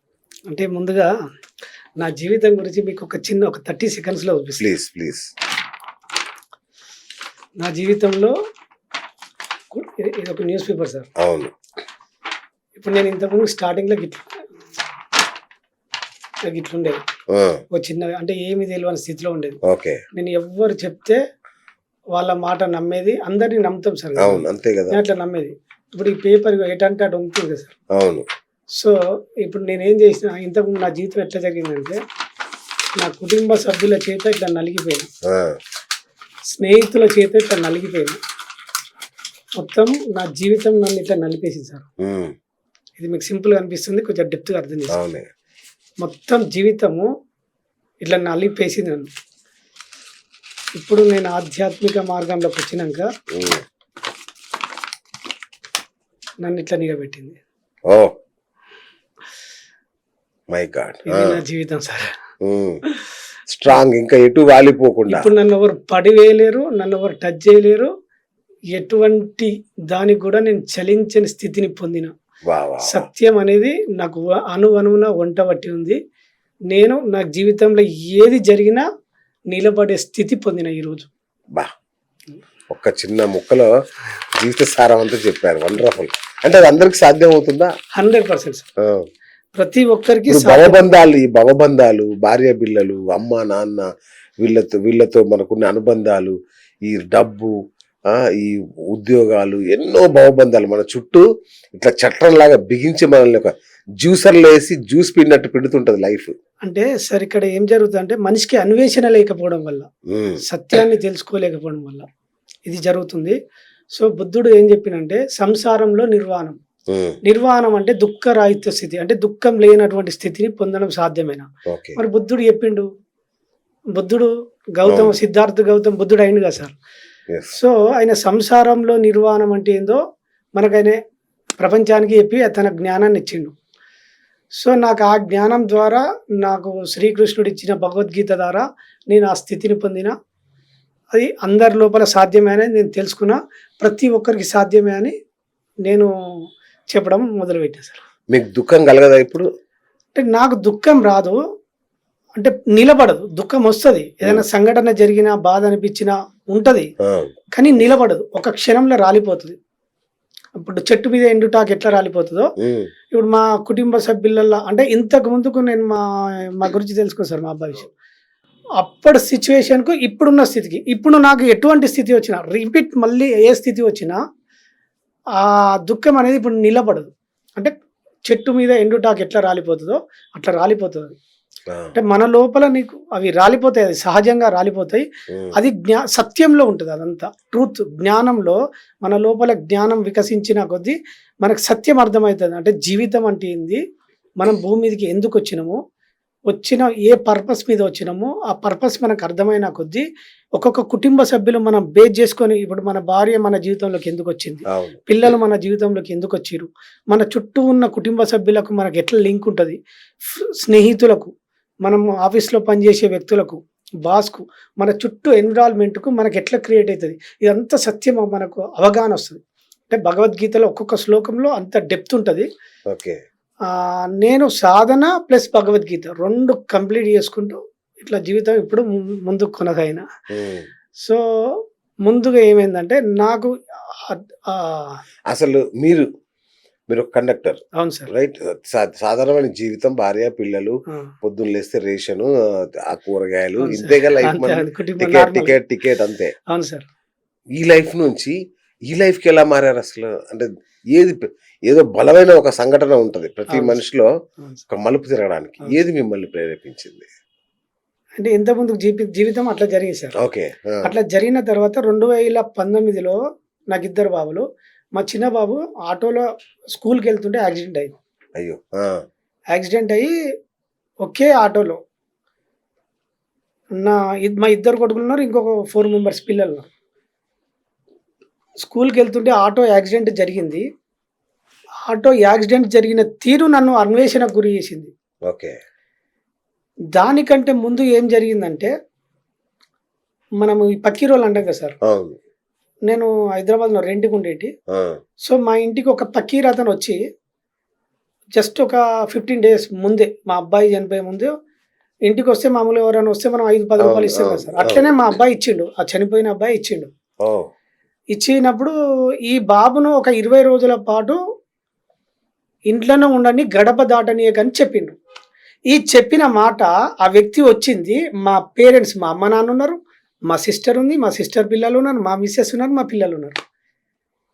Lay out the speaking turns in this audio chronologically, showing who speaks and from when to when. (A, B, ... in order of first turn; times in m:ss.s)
0:00.5-0:01.1 A
0:02.0-0:04.7 A
0:04.6-0:05.3 B
0:07.6-0:08.3 A
0:09.7-0:11.1 A
0:11.2-0:11.5 B
0:12.8-0:14.4 A
0:16.5-0:17.0 A
0:17.3-0:17.6 B
0:17.7-0:19.6 A
0:19.7-0:20.0 B
0:20.1-0:21.2 A
0:22.2-0:27.8 A
0:24.2-0:25.0 B
0:28.0-0:28.3 B
0:28.8-0:32.0 A
0:33.0-0:35.1 A
0:35.3-0:35.6 B
0:36.5-0:38.2 A
0:39.6-0:41.9 A
0:42.0-0:42.3 B
0:43.0-0:45.0 A
0:44.9-0:45.3 B
0:46.0-0:47.1 A
0:48.0-0:49.1 A
0:50.8-0:53.1 A
0:53.4-0:53.6 B
0:56.4-0:57.4 A
1:00.5-1:01.4 B
1:01.1-1:02.1 A
1:02.4-1:02.8 B
1:03.5-1:05.3 B
1:05.1-1:07.9 A
1:08.8-1:12.1 A
1:12.5-1:13.0 B
1:12.8-1:16.0 A
1:16.7-1:18.8 A
1:19.5-1:21.1 A
1:22.7-1:23.7 B
1:24.4-1:27.7 B
1:28.0-1:28.7 A
1:29.6-1:30.9 A
1:30.3-1:33.9 B
1:34.4-1:36.4 B
1:36.9-1:37.5 B
1:38.1-1:46.3 B
1:46.6-1:49.9 A
1:50.1-1:50.4 B
1:50.5-1:52.1 A
1:52.7-1:53.4 A
1:54.0-1:56.6 A
1:56.9-1:57.2 B
1:57.2-2:02.9 A
2:01.7-2:02.0 B
2:04.0-2:06.8 A
2:04.9-2:05.2 B
2:07.3-2:07.6 B
2:07.5-2:10.0 A
2:10.6-2:11.0 A
2:11.6-2:13.5 A
2:14.6-2:20.1 A
2:21.1-2:25.2 A
2:26.9-2:28.0 A
2:28.3-2:29.5 B
2:30.2-2:31.4 A
2:32.4-2:36.9 A
2:37.1-2:37.3 B
2:37.6-2:39.6 A
2:40.6-2:42.5 A
2:42.6-2:42.9 B
2:43.1-2:47.9 A
2:48.8-2:54.2 A
2:55.4-2:57.7 A
2:58.3-3:01.2 A
3:02.0-3:13.8 A
3:14.4-3:15.8 A
3:16.5-3:20.0 A
3:20.6-3:29.8 A
3:24.7-3:25.0 B
3:30.3-3:31.3 A
3:31.8-3:42.5 A
3:42.9-3:43.2 B
3:43.7-3:50.1 A
3:50.3-3:50.7 B
3:51.0-3:55.0 A
3:55.3-3:56.1 B
3:56.9-4:02.3 B
3:57.8-3:58.1 A
4:02.9-4:06.3 B
4:03.6-4:05.5 A
4:06.5-4:06.9 A
4:07.6-4:08.4 B
4:08.9-4:14.1 B
4:13.5-4:13.8 A
4:14.7-4:17.1 B
4:18.2-4:20.1 A
4:20.2-4:20.9 B
4:20.8-4:23.2 A
4:23.7-4:24.4 A
4:25.0-4:28.0 A
4:28.4-4:28.9 B
4:29.5-4:30.1 A
4:31.0-4:31.8 A
4:33.8-4:36.7 A
4:38.6-4:40.6 A
4:41.9-4:44.9 A
4:45.3-4:45.5 B
4:47.0-4:48.7 A
4:50.4-4:51.8 A
4:51.9-4:52.2 B
4:52.9-4:54.5 A
4:55.3-4:57.0 A
4:58.4-5:01.3 A
5:02.1-5:06.9 A
5:03.8-5:04.9 B
5:07.2-5:07.5 B
5:08.1-5:08.7 A
5:09.3-5:11.2 A
5:12.7-5:15.0 A
5:15.7-5:19.8 A
5:20.3-5:23.4 A